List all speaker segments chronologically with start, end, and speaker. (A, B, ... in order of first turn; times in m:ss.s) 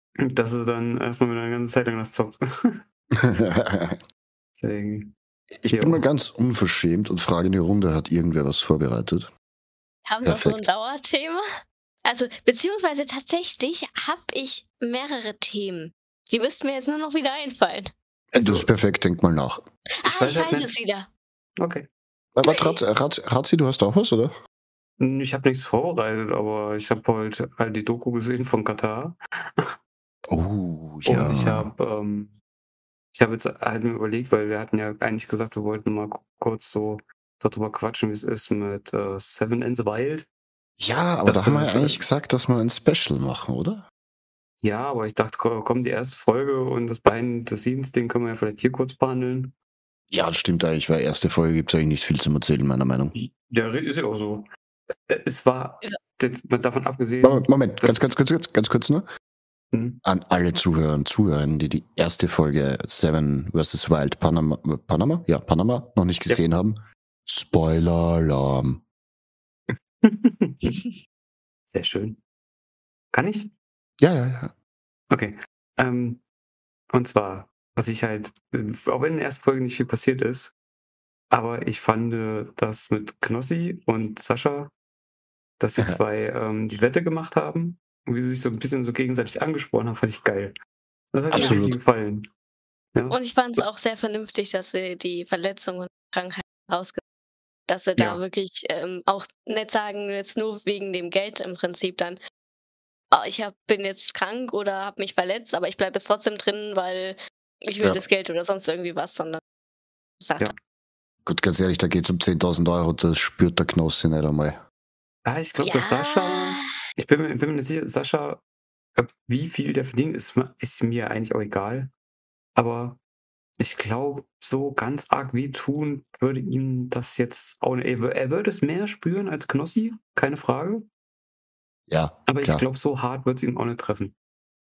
0:00.2-0:02.8 A
0:03.1-0:04.0 B
0:04.6-0:05.1 A
0:05.6-0:09.3 B
0:05.7-0:06.0 A
0:10.0-0:11.4 C
0:10.2-0:10.6 B
0:12.0-0:17.9 C
0:18.3-0:19.6 B
0:18.4-0:18.7 A
0:20.0-0:21.1 C
0:20.0-0:20.7 A
0:21.6-0:21.9 A
0:22.4-0:24.3 B
0:22.4-0:22.8 C
0:25.0-0:29.7 A
0:30.3-0:31.7 B
0:31.0-0:32.3 A
0:33.1-0:40.3 A
0:40.8-0:43.8 B
0:41.2-0:42.0 A
0:44.6-0:49.5 A
0:50.1-0:53.1 B
0:53.1-0:54.5 A
0:55.1-0:58.1 A
0:57.2-0:59.0 B
0:59.7-1:00.0 A
1:00.0-1:08.8 B
1:09.7-1:10.8 A
1:11.7-1:12.2 A
1:13.1-1:13.5 A
1:14.0-1:14.5 B
1:15.1-1:16.2 A
1:16.9-1:20.5 A
1:21.3-1:24.7 A
1:25.6-1:30.5 A
1:31.1-1:32.3 A
1:31.3-1:31.8 B
1:31.4-1:31.6 C
1:33.1-1:37.0 C
1:37.7-1:42.2 C
1:43.1-1:49.4 C
1:50.2-1:50.5 C
1:51.2-1:54.6 B
1:55.2-1:58.4 A
1:55.6-1:56.7 C
1:59.0-2:01.9 A
2:02.6-2:03.0 A
2:03.6-2:10.9 A
2:11.9-2:12.6 B
2:12.3-2:14.1 A